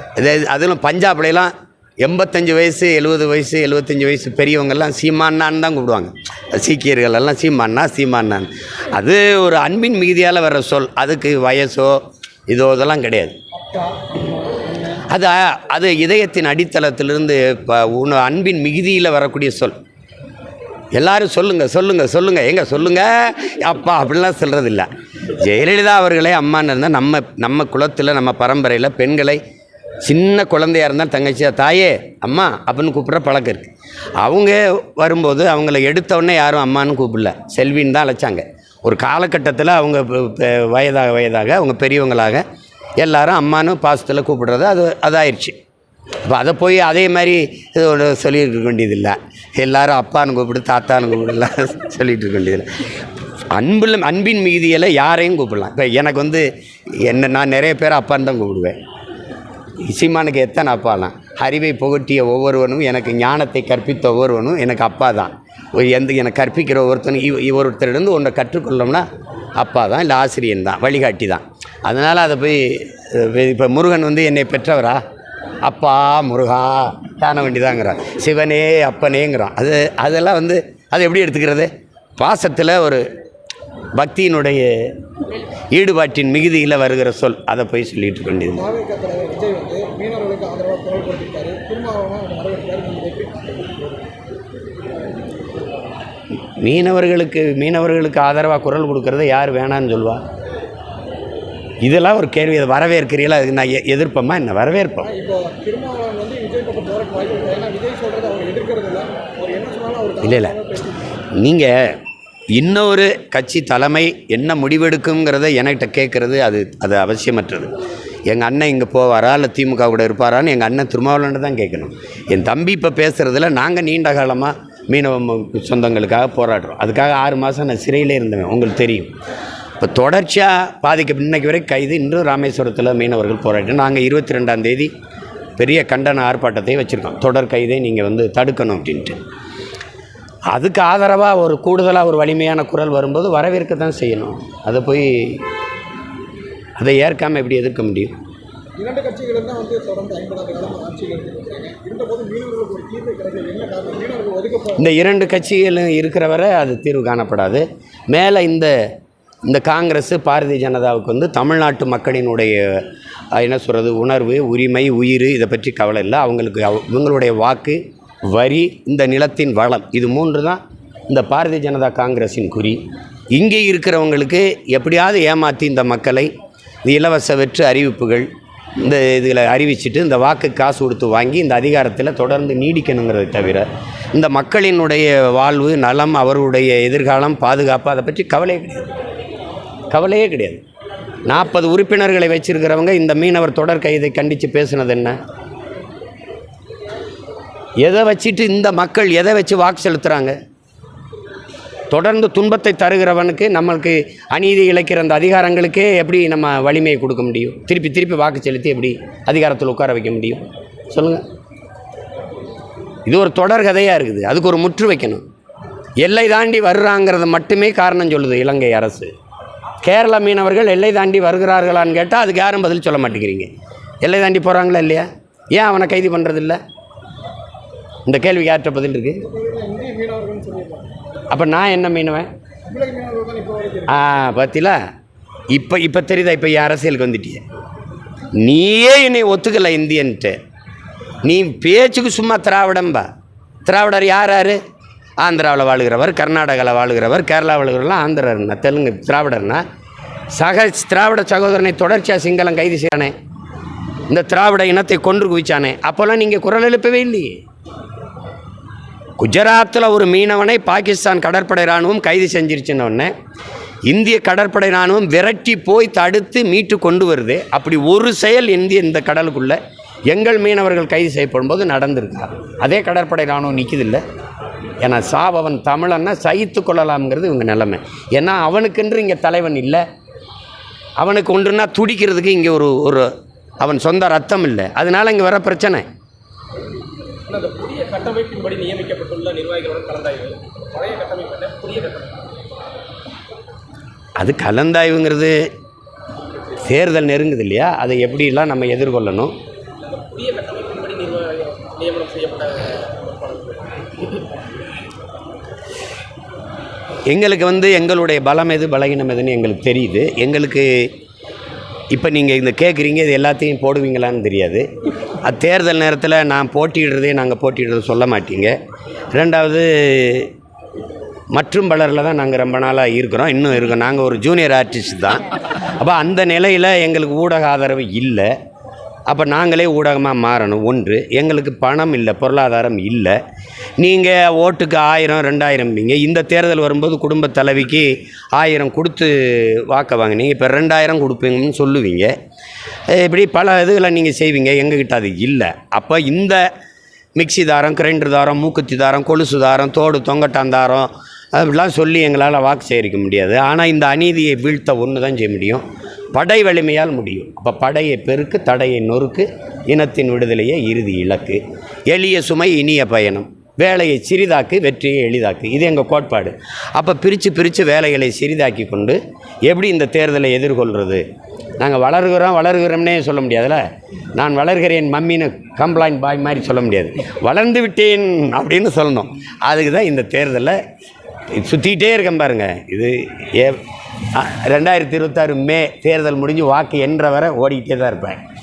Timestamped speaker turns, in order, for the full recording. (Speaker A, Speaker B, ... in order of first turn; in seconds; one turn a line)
Speaker A: 0.2-13.4
Speaker B: 13.7-14.0
Speaker A: 15.0-19.8
Speaker A: 20.9-29.4
Speaker A: 30.1-42.4
Speaker A: 43.0-45.6
Speaker A: 46.3-52.7
Speaker A: 53.5-58.8
Speaker A: 59.9-69.0
Speaker A: 69.6-75.0
Speaker A: 75.6-83.0
Speaker A: 84.0-84.9
Speaker A: 85.7-88.7
Speaker B: 88.6-94.0
Speaker A: 96.6-100.2
Speaker A: 101.8-105.1
Speaker B: 105.1-110.9
Speaker A: 110.2-110.6
Speaker A: 111.4-112.0
Speaker A: 112.6-117.7
Speaker A: 118.3-129.1
Speaker A: 129.8-134.9
Speaker A: 135.6-139.2
Speaker A: 140.5-145.4
Speaker A: 146.8-148.1
Speaker B: 148.8-154.8
Speaker A: 154.8-158.8
Speaker A: 159.5-172.8
Speaker A: 173.3-176.3
Speaker A: 176.8-178.3
Speaker A: 178.8-188.8
Speaker A: 189.9-190.6
Speaker A: 191.3-195.2
Speaker A: 197.8-200.4
Speaker A: 201.9-211.2
Speaker A: 213.1-215.2
Speaker A: 216.0-219.1
Speaker A: 219.8-223.5
Speaker A: 224.0-226.6
Speaker A: 228.1-229.2
Speaker B: 229.3-230.9
Speaker A: 231.3-232.3
Speaker B: 232.7-233.9
Speaker A: 233.9-234.8
Speaker A: 235.5-237.4
Speaker A: 238.4-240.4
Speaker A: 241.2-243.1
Speaker A: 243.7-244.6
Speaker A: 245.2-249.6
Speaker A: 250.4-253.1
Speaker A: 254.1-257.4
Speaker A: 259.2-263.1
Speaker A: 263.9-274.0
Speaker A: 274.8-279.8
Speaker A: 281.0-285.9
Speaker C: 287.3-292.3
Speaker A: 294.2-295.4
Speaker A: 296.6-299.3
Speaker C: 299.8-303.9
Speaker A: 307.1-310.9
Speaker A: 311.9-314.7
Speaker A: 315.2-318.6
Speaker A: 319.1-320.3
Speaker A: 321.3-328.3
Speaker A: 329.1-333.2
Speaker A: 333.8-342.1
Speaker A: 342.9-346.5
Speaker A: 347.2-371.0
Speaker A: 371.6-373.6
Speaker A: 374.2-380.6
Speaker A: 381.3-383.6
Speaker A: 384.1-388.2